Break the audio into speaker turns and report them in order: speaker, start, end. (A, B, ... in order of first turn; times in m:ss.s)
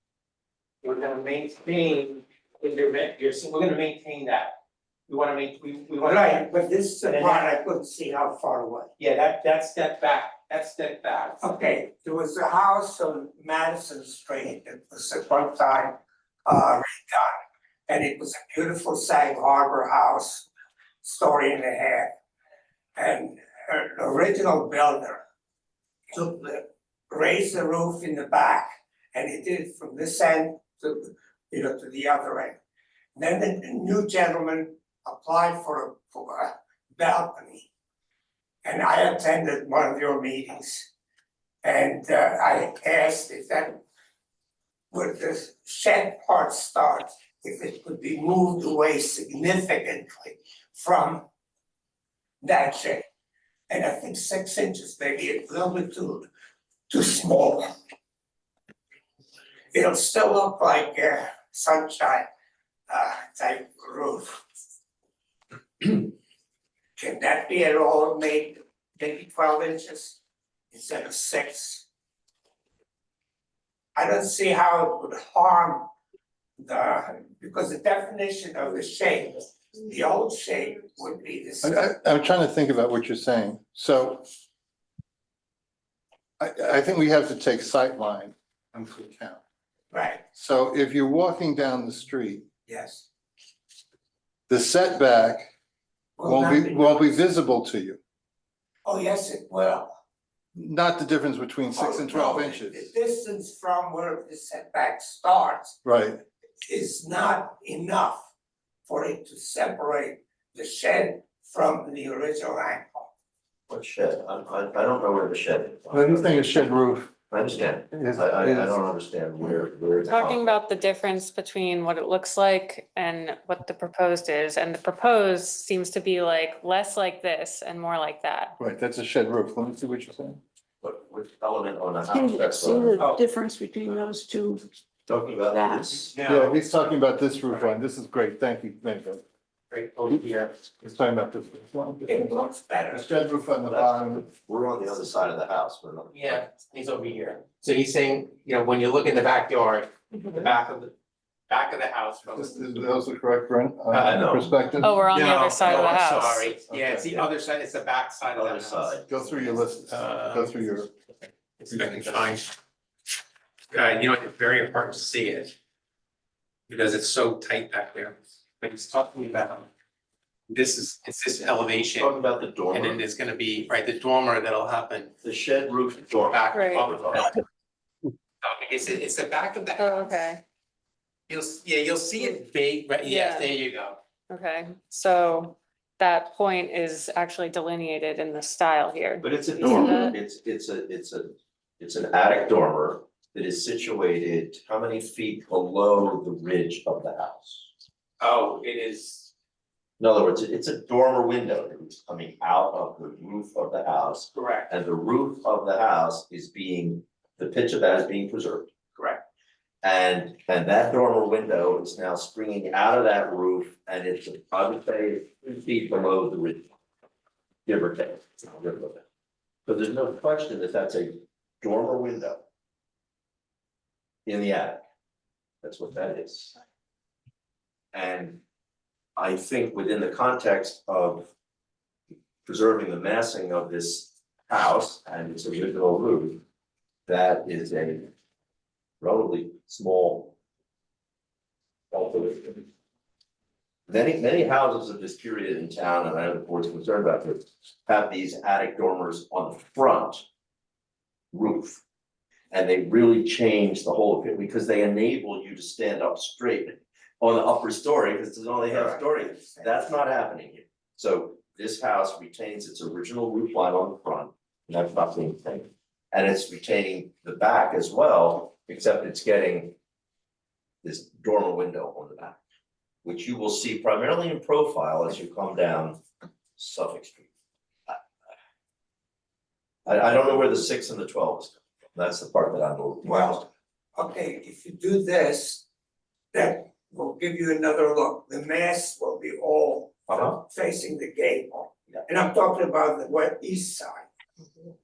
0:00.8-0:04.6 A
0:05.1-0:06.4 A
0:06.0-0:08.9 B
0:07.0-0:07.6 A
0:09.0-0:11.4 A
0:11.4-0:17.3 B
0:17.9-0:20.5 B
0:21.0-0:22.1 B
0:23.0-0:25.2 B
0:26.1-0:32.6 B
0:33.1-0:37.7 B
0:38.6-0:40.9 B
0:41.6-0:43.8 B
0:44.9-0:51.2 B
0:52.4-0:53.0 B
0:53.7-0:56.3 B
0:56.9-0:57.7 B
0:59.7-1:02.2 B
1:02.9-1:04.4 B
1:05.8-1:06.1 B
1:07.0-1:10.2 B
1:10.7-1:11.8 B
1:13.9-1:15.9 B
1:16.6-1:21.8 B
1:21.6-1:24.3 C
1:26.4-1:29.4 C
1:29.9-1:30.2 B
1:30.3-1:32.4 C
1:32.7-1:33.0 B
1:34.5-1:35.5 C
1:36.2-1:37.1 B
1:36.2-1:38.0 C
1:38.8-1:40.0 B
1:40.5-1:42.9 C
1:41.7-1:45.8 B
1:45.8-1:46.2 C
1:46.6-1:48.2 B
1:48.9-1:53.1 B
1:53.7-1:56.6 D
1:55.9-1:57.1 C
1:57.3-2:00.6 D
1:57.9-1:58.8 C
2:00.0-2:08.5 E
2:08.6-2:10.4 C
2:10.8-2:13.0 D
2:12.1-2:14.6 F
2:13.0-2:13.2 A
2:15.1-2:16.2 D
2:15.4-2:15.9 F
2:16.1-2:16.6 A
2:16.2-2:19.2 C
2:19.7-2:20.5 A
2:20.7-2:22.3 C
2:22.1-2:23.1 B
2:22.9-2:24.3 C
2:23.6-2:26.4 D
2:26.1-2:30.9 A
2:31.5-2:32.7 A
2:32.3-2:35.0 C
2:33.9-2:34.3 A
2:34.0-2:34.5 D
2:34.8-2:36.5 E
2:35.1-2:38.9 A
2:36.7-2:37.0 C
2:36.9-2:37.3 D
2:38.3-2:39.1 D
2:39.1-2:40.9 C
2:39.8-2:40.6 A
2:41.6-2:42.5 A
2:43.7-2:45.5 A
2:46.7-2:49.7 A
2:50.5-2:52.1 A
2:51.9-2:53.0 D
2:52.7-2:55.1 A
2:55.2-2:57.3 D
2:56.3-2:57.4 A
2:58.4-3:00.1 A
2:59.8-3:00.4 E
3:01.3-3:04.0 A
3:03.0-3:03.5 E
3:04.3-3:10.2 E
3:09.2-3:17.7 D
3:09.6-3:10.0 F
3:18.2-3:19.3 A
3:20.0-3:28.7 D
3:24.4-3:24.7 A
3:29.0-3:29.2 A
3:29.8-3:36.7 D
3:37.6-3:39.0 D
3:39.6-3:42.4 D
3:44.2-3:44.8 D
3:45.6-3:46.5 D
3:47.9-3:48.4 D
3:49.2-3:51.3 D
3:52.4-3:56.4 D
3:57.1-3:58.1 D
3:59.0-4:00.3 D
4:01.9-4:02.7 D
4:03.9-4:10.2 D
4:11.3-4:11.8 D
4:12.5-4:29.8 D
4:18.7-4:19.9 B
4:30.8-4:32.4 D
4:33.0-4:36.0 D
4:36.6-4:37.3 D
4:39.8-4:43.3 D
4:43.0-4:45.6 B
4:46.3-4:54.0 B
4:50.1-4:50.4 D